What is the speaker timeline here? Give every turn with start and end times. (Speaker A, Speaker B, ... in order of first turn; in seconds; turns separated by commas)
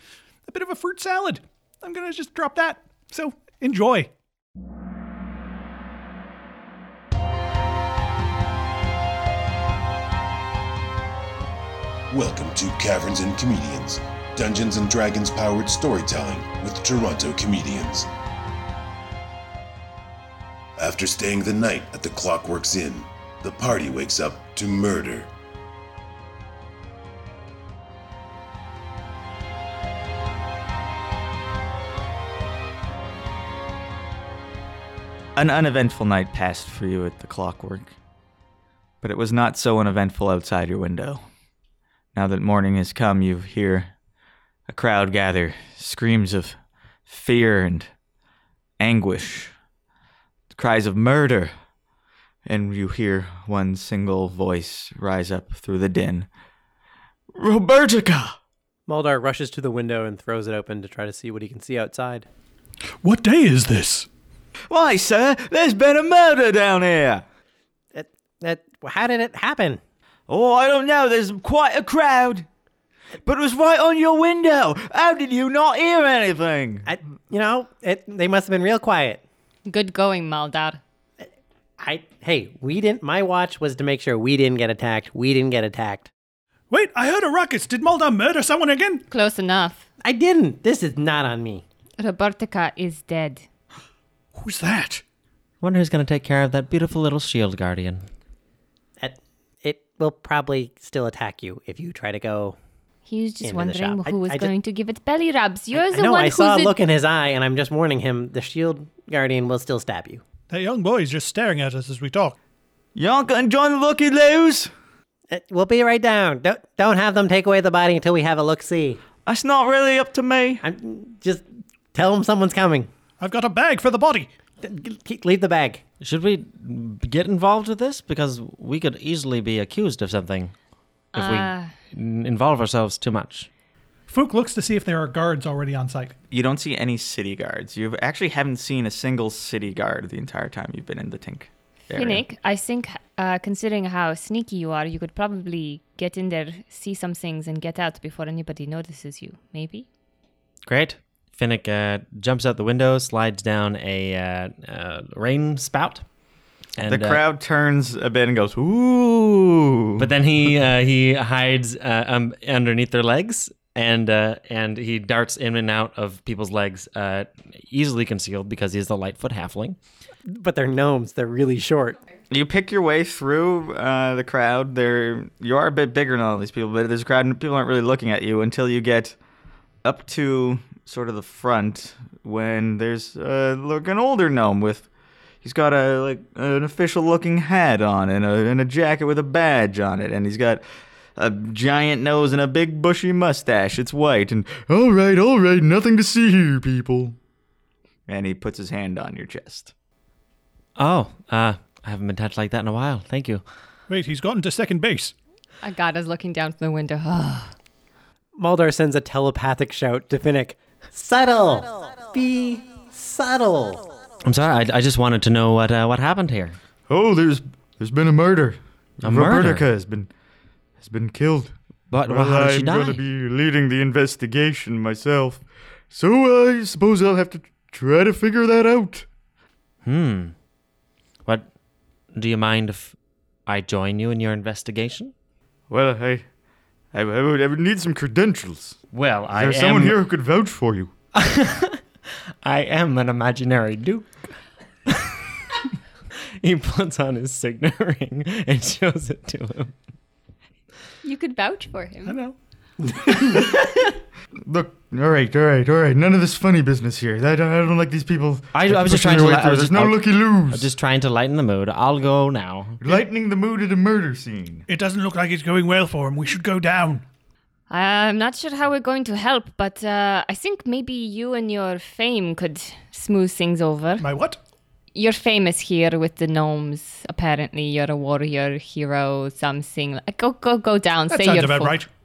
Speaker A: 0.5-4.1, Speaker B: 12.1-18.1, Speaker B: 20.8-25.3, Speaker C: 35.4-37.9, Speaker C: 39.0-41.2, Speaker C: 42.1-43.9, Speaker C: 44.7-46.5, Speaker C: 47.1-47.9, Speaker C: 48.8-49.5, Speaker C: 50.5-51.5, Speaker C: 52.5-56.3, Speaker C: 57.3-58.4, Speaker D: 58.9-62.2, Speaker A: 63.0-64.1, Speaker C: 64.7-67.2, Speaker D: 67.9-69.8, Speaker C: 70.3-72.5, Speaker C: 73.2-76.9, Speaker D: 76.8-79.2, Speaker E: 79.7-80.8, Speaker D: 81.8-86.1, Speaker A: 86.7-89.0, Speaker E: 89.1-89.8, Speaker D: 90.0-91.6, Speaker E: 92.0-93.4, Speaker A: 94.3-95.0, Speaker F: 95.6-98.0, Speaker D: 99.0-102.5, Speaker E: 103.1-106.7, Speaker D: 103.4-104.5, Speaker D: 105.7-110.2, Speaker A: 110.5-112.3, Speaker C: 112.9-114.7, Speaker D: 115.3-119.0, Speaker C: 119.2-120.6, Speaker D: 120.6-122.9, Speaker A: 123.2-124.3, Speaker D: 124.6-125.8, Speaker F: 126.0-130.5, Speaker E: 131.1-131.7, Speaker F: 131.1-133.5, Speaker A: 134.1-136.1, Speaker C: 136.3-142.2, Speaker E: 141.9-149.8, Speaker F: 150.7-156.0, Speaker F: 156.8-157.2, Speaker C: 156.8-160.1, Speaker F: 160.0-169.8, Speaker D: 170.2-172.0, Speaker C: 172.3-179.2, Speaker C: 179.8-184.9, Speaker C: 185.4-190.6, Speaker C: 191.2-197.2, Speaker C: 198.1-199.7, Speaker F: 200.8-203.4, Speaker A: 203.9-205.1, Speaker E: 205.6-207.5, Speaker D: 208.3-213.8, Speaker F: 214.2-216.6, Speaker C: 216.9-220.1, Speaker F: 219.0-219.6, Speaker C: 220.8-221.5, Speaker F: 221.9-223.0, Speaker C: 222.1-229.1, Speaker F: 229.8-230.3, Speaker F: 232.1-232.9, Speaker F: 233.5-235.1, Speaker C: 235.7-236.2, Speaker C: 236.9-238.8, Speaker F: 238.9-240.0, Speaker C: 239.3-240.9, Speaker F: 241.1-241.8, Speaker F: 242.4-244.1, Speaker F: 244.9-245.2, Speaker F: 246.4-249.7, Speaker E: 251.0-252.2, Speaker A: 252.1-252.3, Speaker C: 254.4-260.7, Speaker F: 258.5-260.0, Speaker F: 260.5-262.8, Speaker C: 262.8-264.6, Speaker A: 264.7-267.0, Speaker E: 267.7-274.0, Speaker A: 274.0-274.4, Speaker E: 274.9-281.8, Speaker A: 281.1-281.9